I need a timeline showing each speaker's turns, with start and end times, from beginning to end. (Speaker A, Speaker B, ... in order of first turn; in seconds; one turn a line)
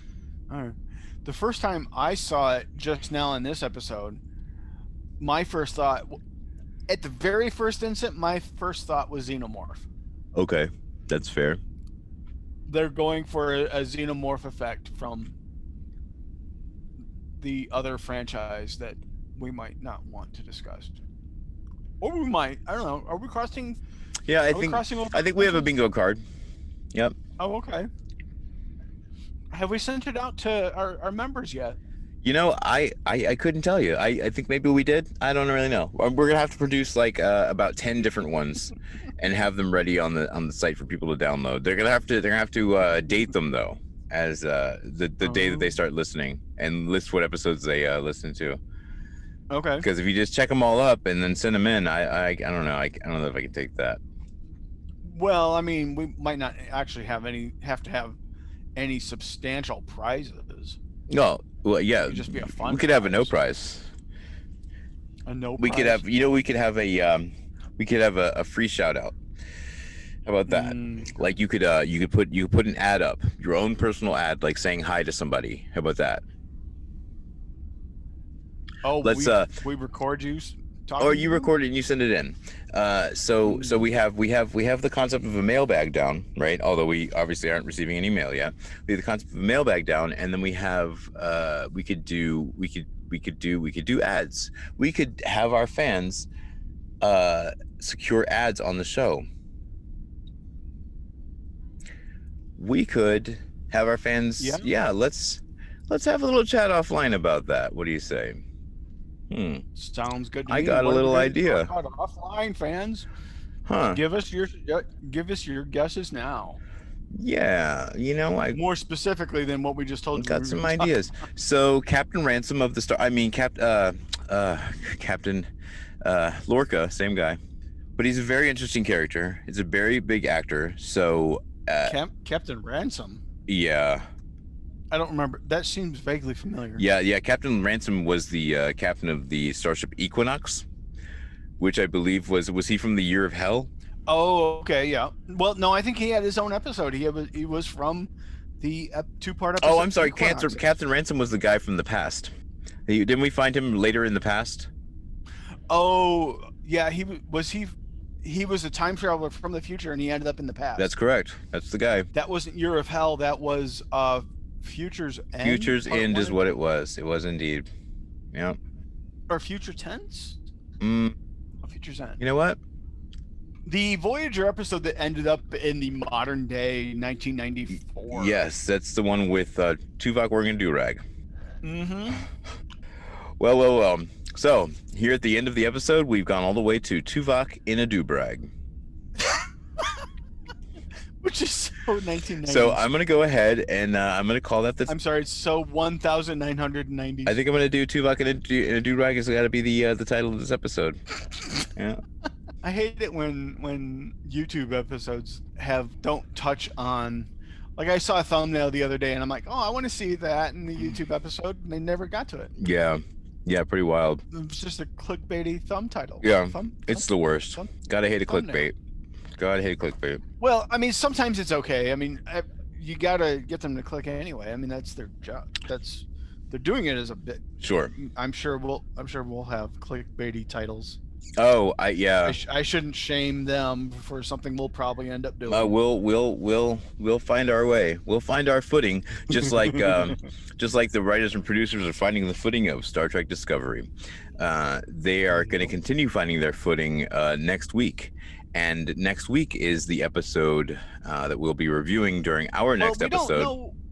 Speaker A: 0.5-4.2
Speaker A: 5.2-6.2
Speaker A: 6.9-9.8
Speaker B: 10.3-11.6
Speaker A: 12.7-15.3
Speaker A: 17.4-21.0
Speaker A: 22.0-23.8
Speaker B: 24.3-26.2
Speaker A: 24.5-25.7
Speaker A: 27.4-27.9
Speaker A: 29.5-31.8
Speaker B: 32.2-48.6
Speaker A: 45.2-45.8
Speaker A: 49.5-49.9
Speaker B: 49.8-54.0
Speaker A: 55.0-58.2
Speaker A: 58.8-60.8
Speaker B: 61.1-63.9
Speaker A: 62.1-63.3
Speaker A: 65.3-66.0
Speaker B: 65.6-69.2
Speaker B: 70.2-76.2
Speaker A: 70.5-71.1
Speaker A: 78.8-81.5
Speaker B: 79.0-79.5
Speaker B: 81.0-96.3
Speaker A: 83.5-83.8
Speaker B: 97.0-99.3
Speaker B: 102.6-108.4
Speaker A: 104.4-104.7
Speaker B: 109.3-109.6
Speaker A: 109.8-113.1
Speaker B: 110.5-111.7
Speaker B: 113.7-114.0
Speaker A: 113.9-116.6
Speaker B: 117.1-118.6
Speaker A: 118.5-120.9
Speaker B: 120.1-125.5
Speaker B: 126.0-127.4
Speaker B: 128.0-132.0
Speaker A: 131.9-133.2
Speaker B: 133.5-134.1
Speaker A: 134.9-136.8
Speaker B: 136.8-140.7
Speaker B: 141.6-143.7
Speaker A: 144.1-150.6
Speaker B: 149.6-152.3
Speaker B: 152.9-154.7
Speaker A: 155.7-160.9
Speaker B: 160.8-162.1
Speaker A: 162.1-166.4
Speaker B: 165.4-167.7
Speaker B: 168.3-168.6
Speaker A: 169.3-170.4
Speaker B: 170.8-171.2
Speaker A: 171.6-172.2
Speaker B: 172.2-172.6
Speaker A: 173.7-178.4
Speaker B: 178.1-181.0
Speaker A: 181.6-182.3
Speaker B: 183.4-188.5
Speaker A: 191.2-192.8
Speaker B: 192.4-194.9
Speaker A: 194.9-197.4
Speaker B: 197.3-201.0
Speaker B: 201.7-202.0
Speaker A: 202.6-212.5
Speaker B: 212.6-214.2
Speaker A: 214.3-217.7
Speaker B: 216.2-218.8
Speaker A: 218.3-218.6
Speaker B: 219.4-220.2
Speaker A: 220.4-227.4
Speaker B: 227.6-227.9
Speaker A: 227.9-231.0
Speaker B: 231.4-232.4
Speaker A: 232.2-235.8
Speaker B: 235.5-253.5
Speaker A: 239.7-240.1
Speaker A: 252.8-253.8